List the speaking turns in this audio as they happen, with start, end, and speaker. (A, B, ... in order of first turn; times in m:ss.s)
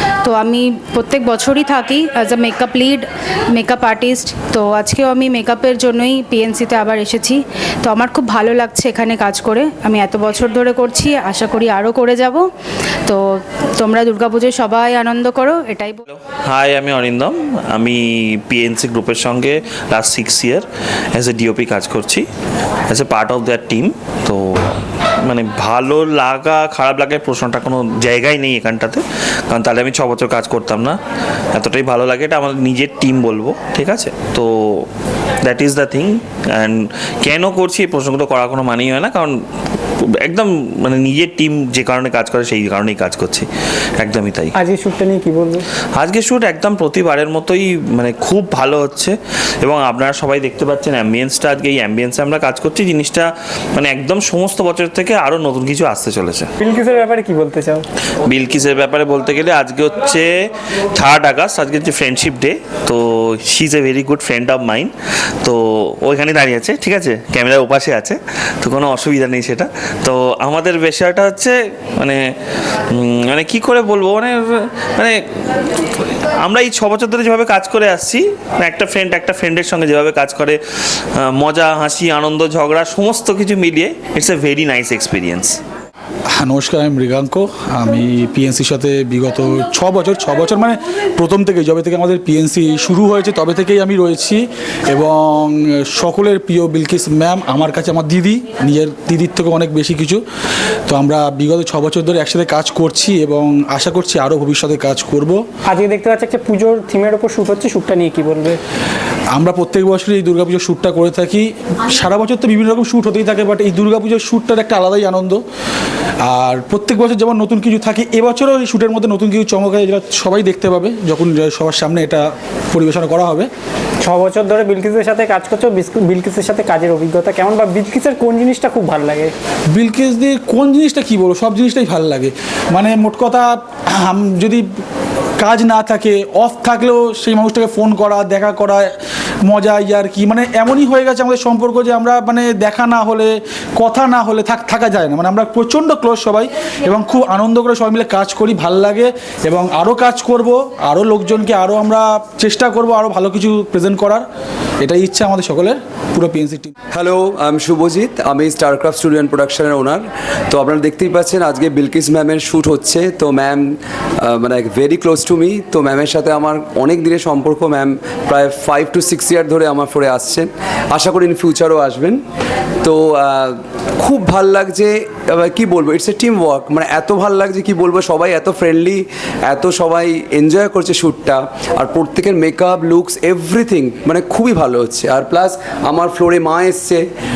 0:00.2-0:12.4 A
0:13.0-0:16.0 A
0:16.1-0:22.2 B
0:22.9-0:31.0 B
0:31.5-0:34.9 B
0:35.4-0:39.4 B
0:40.0-0:44.5 B
0:44.6-0:45.6 C
0:46.0-0:56.5 B
0:56.6-0:57.8 C
0:58.2-1:12.2 B
1:12.9-1:25.6 B
1:26.4-1:40.2 D
1:40.9-1:45.4 D
1:45.6-1:48.6 C
1:49.3-1:55.4 D
1:56.2-2:03.5 D
2:04.0-2:09.3 C
2:09.7-2:14.6 D
2:15.4-2:18.9 D
2:19.4-2:34.2 D
2:34.8-2:36.7 D
2:36.9-2:52.2 E
2:52.8-3:07.0 E